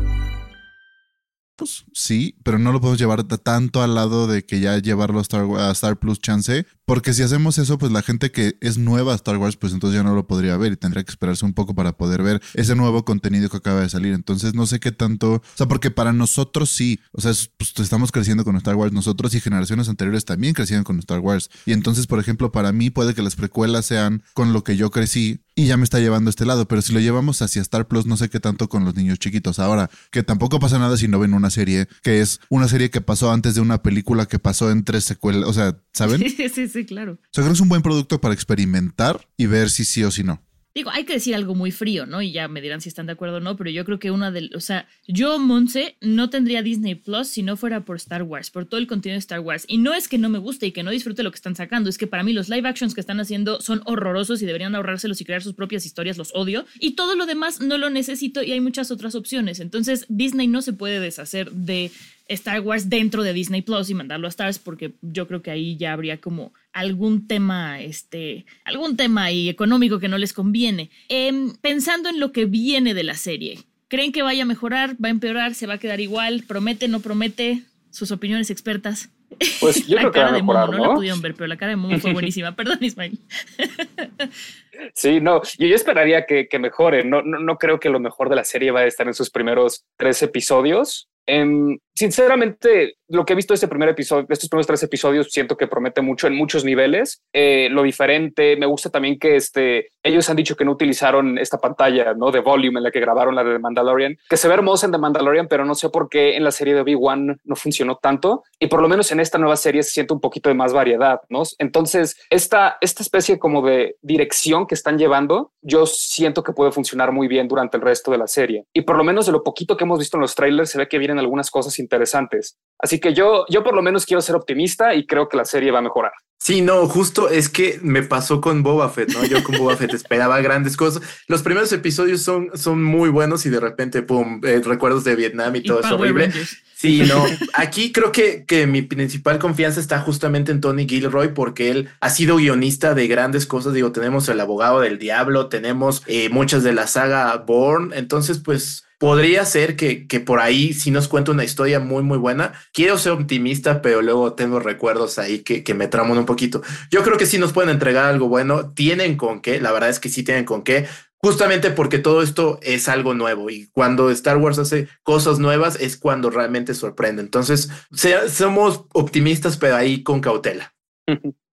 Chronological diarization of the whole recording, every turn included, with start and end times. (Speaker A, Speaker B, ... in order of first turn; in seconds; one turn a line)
Speaker A: 1.6-36.3
Speaker B: 36.0-37.2
Speaker A: 37.3-40.4
Speaker B: 40.7-84.3
Speaker C: 79.6-81.1
Speaker C: 81.9-82.2
Speaker C: 84.9-126.1
Speaker D: 126.4-170.7
Speaker B: 135.6-137.4
Speaker C: 171.1-171.3